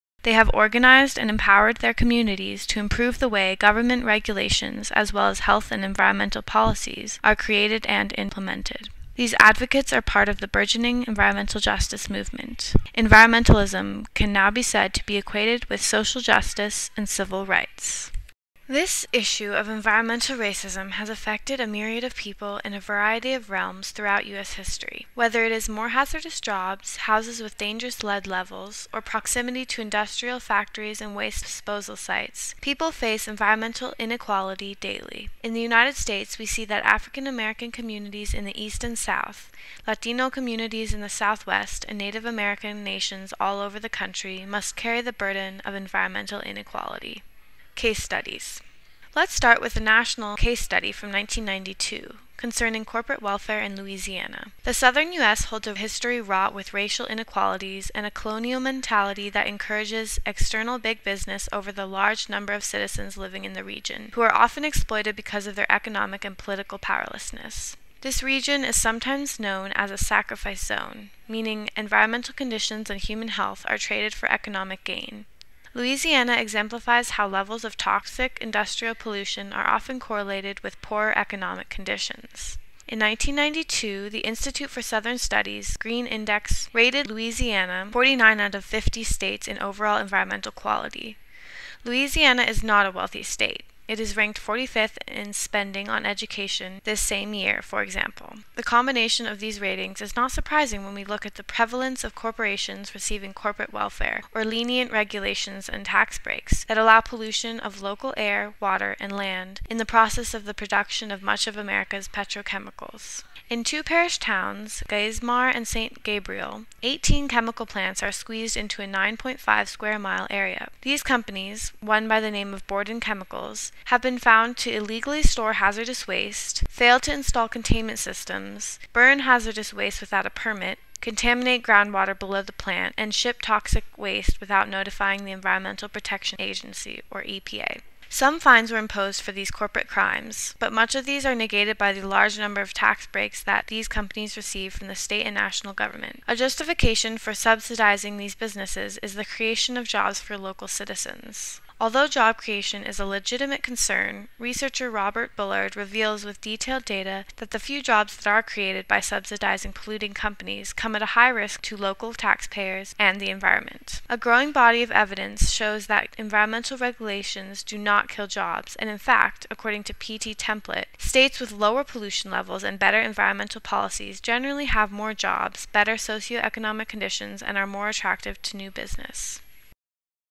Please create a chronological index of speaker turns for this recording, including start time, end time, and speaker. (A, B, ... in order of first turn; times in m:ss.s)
0:00.2-0:18.1 A
0:18.7-0:47.2 A
0:47.8-0:48.6 A
0:49.1-1:31.2 A
1:31.8-2:59.4 A